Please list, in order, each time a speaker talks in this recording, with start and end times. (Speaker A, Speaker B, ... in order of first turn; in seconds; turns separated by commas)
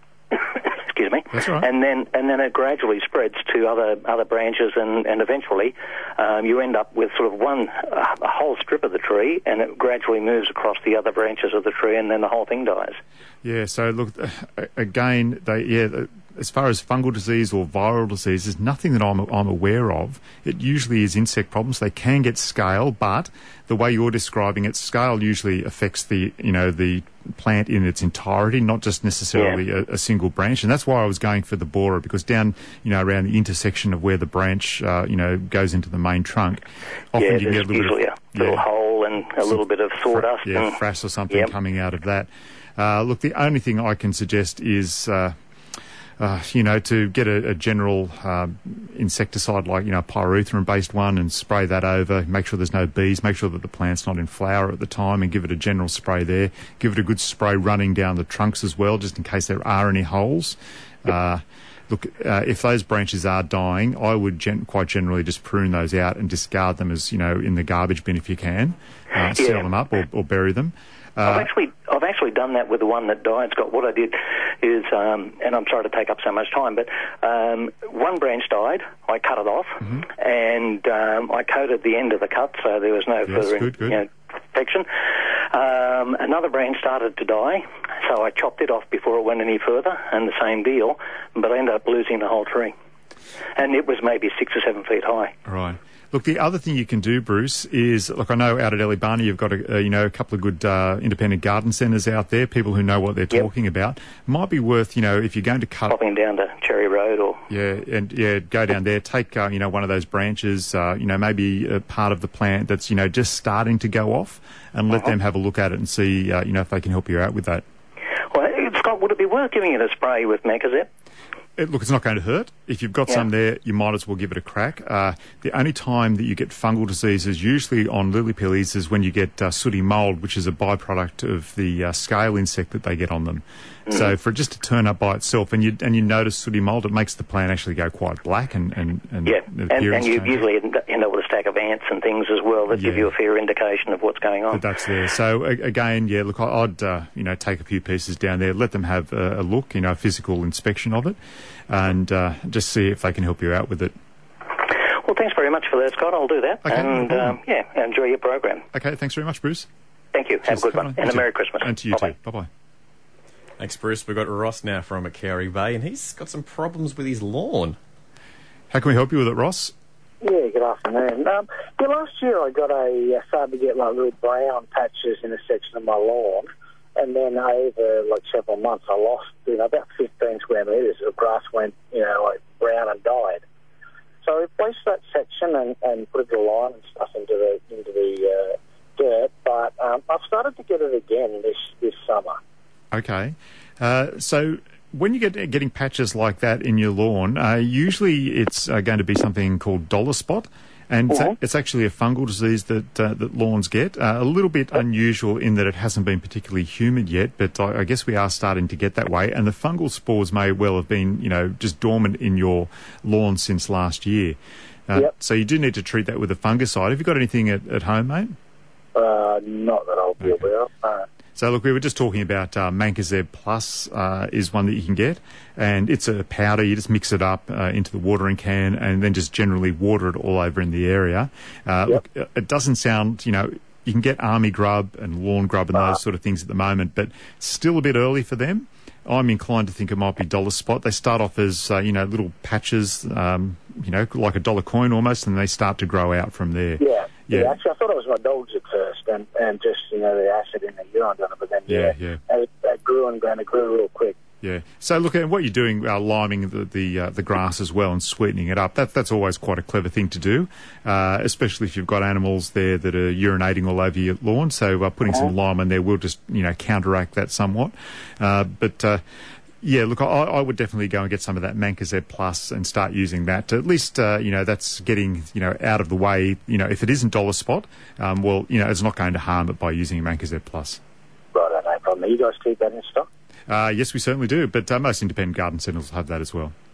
Speaker A: 0.3-13.0, Speaker B: 1.3-1.7, Speaker B: 13.4-38.6, Speaker A: 29.4-29.6, Speaker A: 37.2-40.8, Speaker B: 40.1-45.4, Speaker B: 46.2-71.5, Speaker A: 69.4-69.7, Speaker A: 71.2-92.7, Speaker B: 83.3-84.0, Speaker A: 93.6-95.3, Speaker B: 95.5-106.0, Speaker A: 105.9-107.4, Speaker B: 107.5-117.6, Speaker A: 118.3-120.9, Speaker B: 121.6-140.4, Speaker A: 139.3-144.6, Speaker B: 142.7-143.1, Speaker B: 144.5-151.2, Speaker B: 151.7-153.9, Speaker A: 155.0-158.7, Speaker B: 156.7-157.4, Speaker B: 158.7-159.7, Speaker A: 160.1-162.1, Speaker B: 160.5-162.5, Speaker C: 163.6-167.8, Speaker B: 168.7-169.7, Speaker D: 170.2-183.4, Speaker D: 184.2-192.4, Speaker B: 192.9-214.4, Speaker B: 214.9-218.4, Speaker D: 218.9-221.1, Speaker B: 221.4-247.6, Speaker D: 246.8-254.2, Speaker B: 251.7-252.2, Speaker B: 254.4-269.0, Speaker B: 269.6-280.8, Speaker D: 281.3-283.1, Speaker B: 283.5-286.5